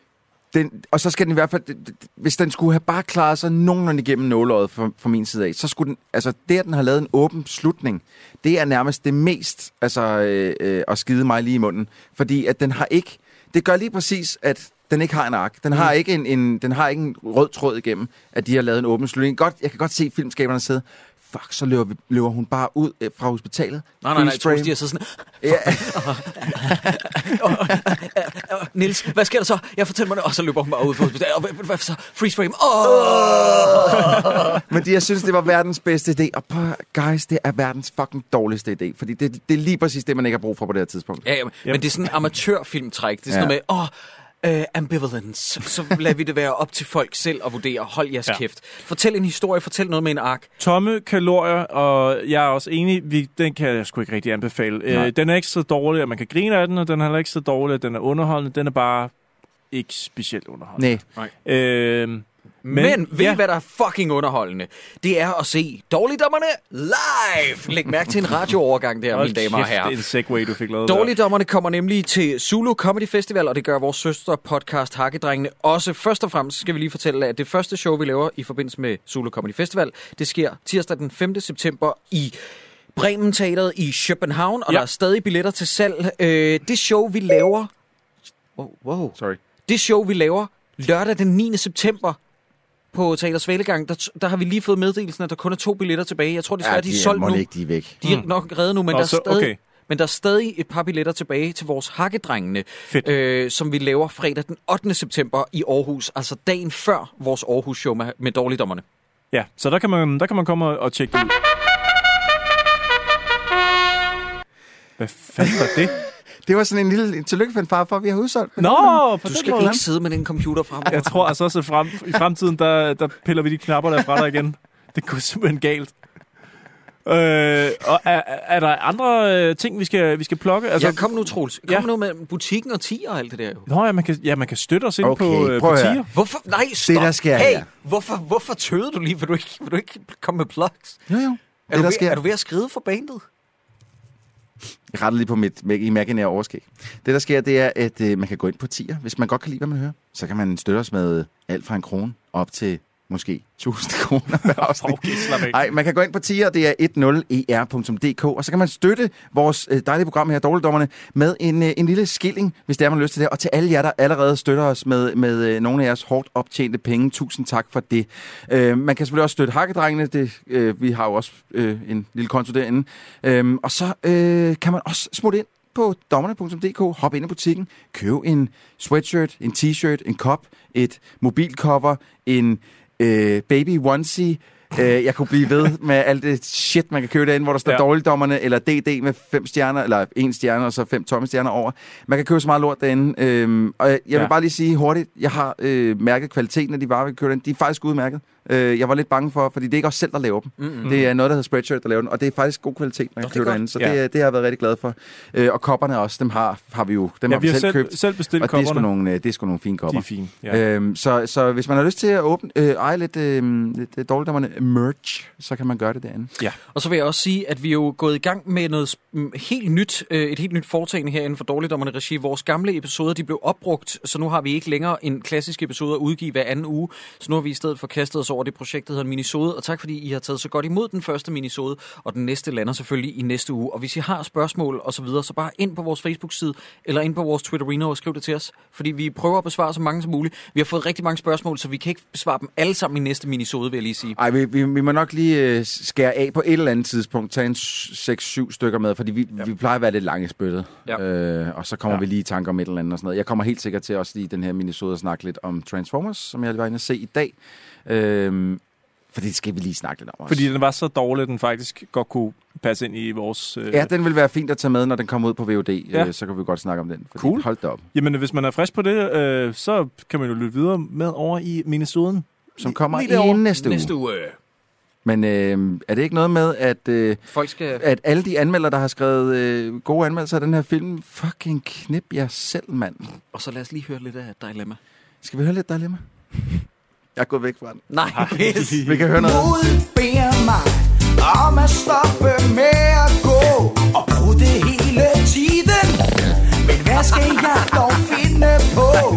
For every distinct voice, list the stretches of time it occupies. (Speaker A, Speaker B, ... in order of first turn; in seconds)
Speaker A: 0.5-24.8, 25.4-27.8, 33.0-41.2, 96.6-98.0, 115.4-115.8, 116.5-119.8, 135.0-136.1, 136.8-137.7, 141.1-142.2, 144.9-216.3, 244.2-258.6, 259.1-260.5, 263.7-267.9, 272.6-273.9, 275.1-277.2, 277.8-283.1, 285.2-286.6, 287.2-287.8, 288.8-289.6
Speaker B: 24.0-34.6, 41.2-50.5, 62.6-70.0, 70.9-82.4, 83.0-87.7, 88.6-92.2, 92.9-97.5, 98.0-108.8, 119.3-121.3, 130.8-133.7, 136.1-141.0, 141.7-143.2, 200.6-200.9, 203.2-203.6, 216.7-244.2, 272.6-274.4, 277.3-277.8, 283.3-284.8, 287.9-290.0, 296.8-298.9
Speaker C: 50.6-59.1, 59.7-63.4, 69.1-71.2, 98.9-99.6, 109.3-111.3, 115.0-116.0, 118.6-119.8, 120.9-125.9, 127.0-131.0, 133.7-136.1, 154.4-155.6, 207.3-208.9, 209.9-210.6, 260.3-263.9, 267.2-272.3, 288.2-289.1
Speaker D: 291.4-293.2, 293.7-295.6